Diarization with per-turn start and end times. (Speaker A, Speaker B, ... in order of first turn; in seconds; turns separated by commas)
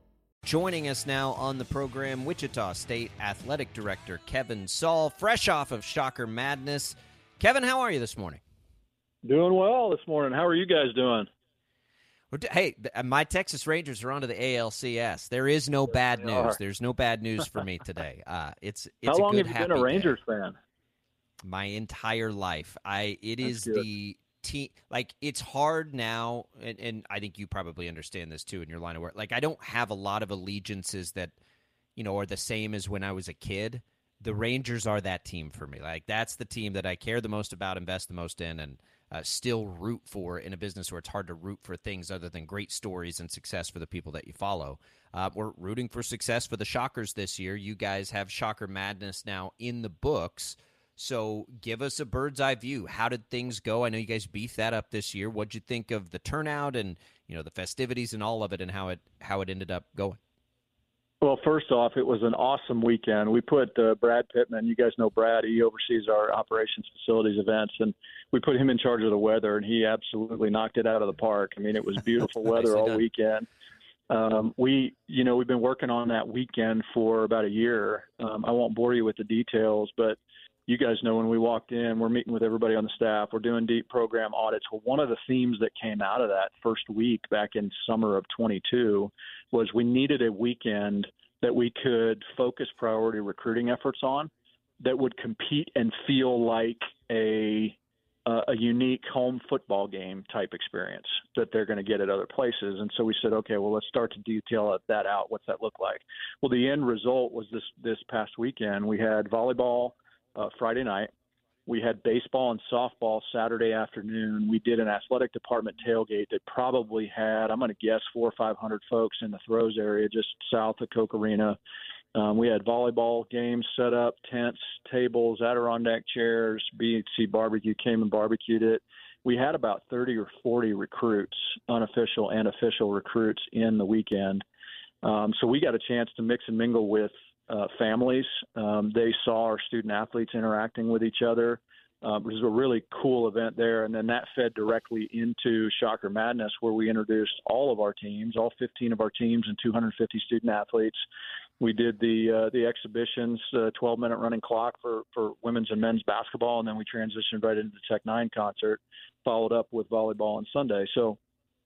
Speaker A: 0.4-8.4, Speaker B: 9.2-11.3, Speaker A: 12.3-20.2, Speaker B: 16.2-16.6, Speaker B: 19.1-20.6, Speaker A: 21.4-31.3, Speaker B: 23.4-23.9, Speaker A: 31.9-60.2, Speaker B: 61.2-73.5, Speaker A: 72.4-73.0, Speaker B: 74.1-94.3, Speaker B: 94.8-111.1, Speaker B: 111.7-121.6, Speaker B: 122.1-134.4, Speaker B: 135.0-151.0, Speaker B: 151.6-161.2